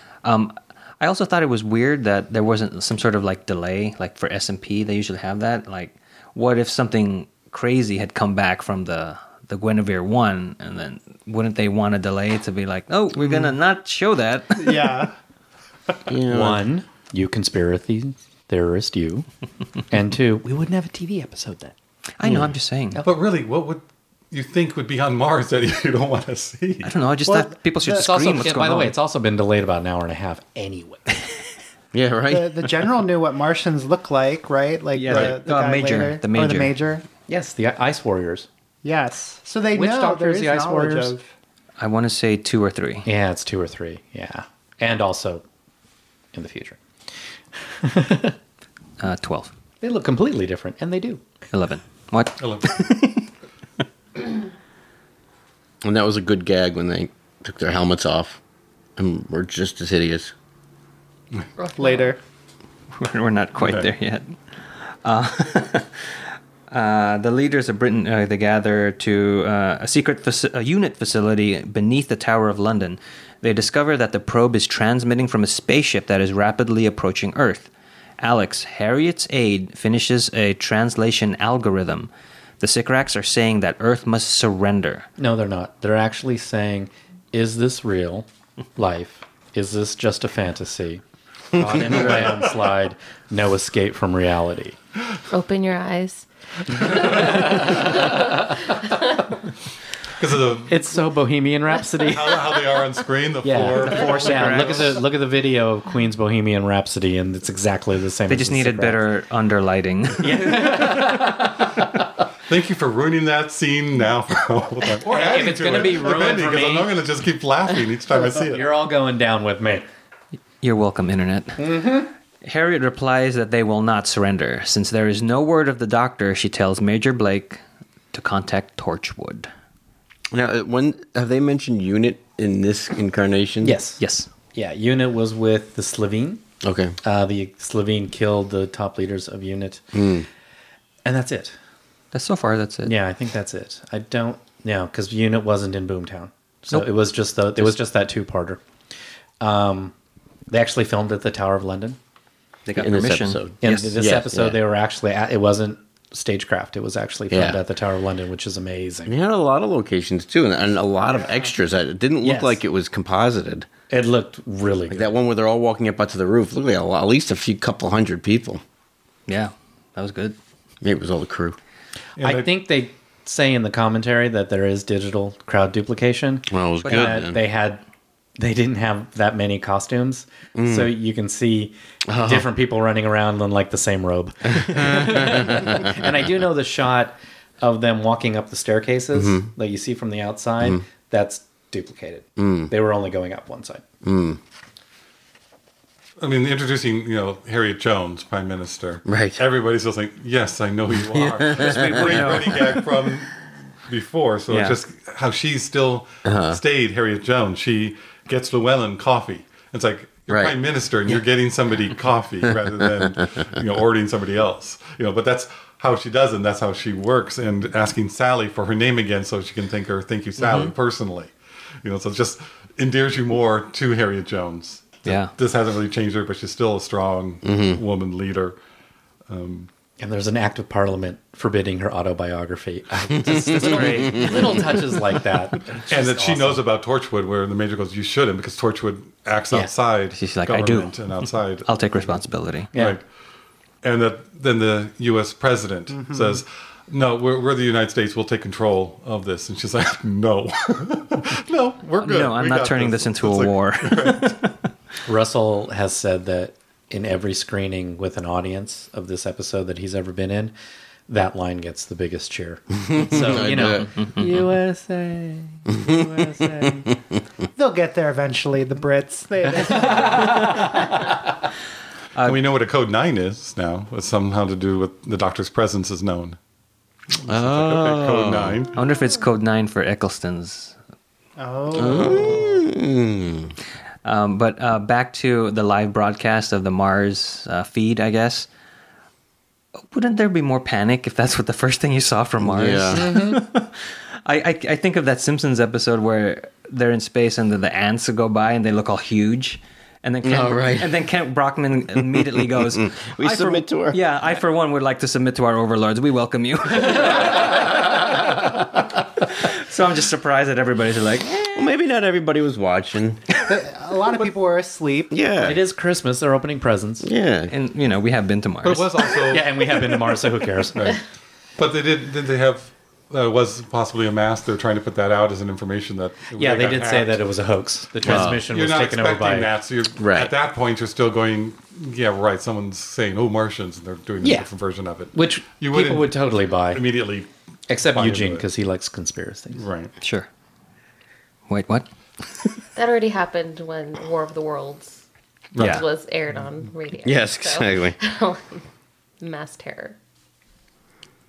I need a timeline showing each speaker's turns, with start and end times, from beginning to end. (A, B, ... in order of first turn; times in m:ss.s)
0:00.2-0:14.7 A
0:14.6-0:15.1 B
0:16.1-0:16.6 C
0:16.3-0:19.3 D
0:19.9-0:21.7 D
0:22.2-0:23.0 A
0:22.2-0:22.5 C
0:23.0-0:26.9 E
0:26.8-0:29.0 A
0:27.3-0:28.1 B
0:27.9-0:31.2 D
0:31.9-0:32.7 C
0:32.3-0:37.1 B
0:35.0-0:36.8 A
0:37.3-0:38.5 D
0:38.8-0:41.3 B
0:39.8-0:41.2 D
0:41.8-0:43.1 A
0:43.1-0:45.4 D
0:46.3-0:46.8 D
0:47.7-0:48.4 D
0:49.0-0:49.5 A
0:49.8-0:51.2 D
0:51.5-0:53.3 A
0:52.4-0:52.8 E
0:55.8-0:58.4 C
0:59.0-1:00.3 C
1:01.6-1:02.2 B
1:02.9-1:25.1 A
1:03.6-1:03.9 E
1:25.2-1:31.0 D
1:31.6-1:34.8 D
1:31.6-1:31.9 C
1:31.8-1:32.6 E
1:35.3-1:36.3 F
1:36.8-1:37.3 F
1:36.8-1:38.6 D
1:36.9-1:37.5 E
1:40.2-1:40.8 E
1:40.7-1:42.5 D
1:42.1-1:45.0 E
1:43.4-1:49.0 D
1:43.8-1:45.0 A
1:48.3-1:50.8 A
1:50.2-1:51.9 D
1:52.5-1:58.7 E
1:55.1-1:56.9 D
1:58.3-1:59.8 D
2:00.6-2:01.9 A
2:01.6-2:02.1 D
2:02.4-2:07.6 A
2:08.1-2:09.5 A
2:10.3-2:13.8 C
2:13.6-2:14.0 D
2:14.0-2:14.3 A
2:14.5-2:16.4 D
2:16.6-2:17.0 C
2:17.0-2:19.9 D
2:19.9-2:20.3 C
2:21.0-2:21.6 D
2:22.1-2:23.0 A
2:22.8-2:28.6 D
2:27.6-2:27.8 A
2:29.4-2:29.9 D
2:30.5-2:32.0 D
2:32.7-2:34.0 A
2:32.8-2:34.6 C
2:33.6-2:39.1 D
2:37.3-2:37.6 C
2:39.1-2:43.7 C
2:42.2-2:42.6 D
2:43.9-2:45.1 D
2:44.9-2:48.6 C
2:49.3-2:50.4 A
2:50.8-2:51.6 C
2:52.2-2:52.5 E
2:52.2-2:57.8 D
2:56.5-2:57.4 C
2:56.8-2:57.2 A
2:58.4-3:13.8 D
3:00.6-3:00.9 C
3:02.1-3:02.5 C
3:04.5-3:06.0 C
3:09.1-3:09.5 C
3:12.4-3:12.7 C
3:14.0-3:14.4 C
3:16.2-3:41.3 E
3:19.1-3:19.4 C
3:21.0-3:22.6 C
3:21.7-3:22.6 A
3:24.5-3:24.8 A
3:26.2-3:26.6 C
3:30.3-3:30.6 C
3:40.4-3:40.7 A
3:41.8-3:48.6 E
3:45.0-3:45.3 A
3:47.4-3:47.8 C
3:49.3-3:49.7 E
3:50.0-3:56.6 D
3:53.2-3:54.8 C
3:53.6-3:54.4 A
3:55.9-4:01.8 E
4:00.1-4:01.0 A
4:01.6-4:02.7 A
4:02.7-4:03.0 D
4:02.7-4:03.0 E
4:03.8-4:14.4 E
4:05.9-4:06.4 B
4:12.0-4:14.6 A
4:15.1-4:20.5 D
4:21.1-4:26.9 D
4:22.8-4:24.1 C
4:25.7-4:27.0 C
4:27.6-4:30.8 B
4:29.7-4:30.6 D
4:32.2-4:36.4 E
4:37.2-4:38.7 E
4:37.3-4:38.6 C
4:38.8-4:40.8 A
4:41.4-4:42.6 B
4:41.7-4:43.5 C
4:44.0-4:48.5 A
4:49.9-5:11.6 A
4:52.4-4:53.2 C
4:53.0-4:53.4 D
5:00.2-5:00.9 C
5:02.8-5:04.0 C
5:11.4-5:13.2 C
5:13.5-5:15.1 B
5:15.1-5:15.6 C
5:15.4-5:17.1 D
5:17.0-5:17.5 C
5:17.5-5:18.9 A
5:18.6-5:20.0 E
5:19.2-5:20.9 D
5:20.8-5:21.0 E
5:21.6-5:27.2 E
5:26.4-5:29.5 D
5:28.0-5:38.5 E
5:28.0-5:28.5 C
5:30.0-5:30.3 C
5:34.2-5:34.5 D
5:35.1-5:36.8 D
5:37.7-5:39.6 D
5:39.6-5:39.9 E
5:40.0-5:40.3 A
5:41.5-5:41.9 A
5:42.8-5:45.0 F
5:45.6-5:45.8 E
5:45.6-5:48.6 F
5:45.6-5:45.8 A
5:47.0-5:48.0 C
5:49.2-5:50.0 F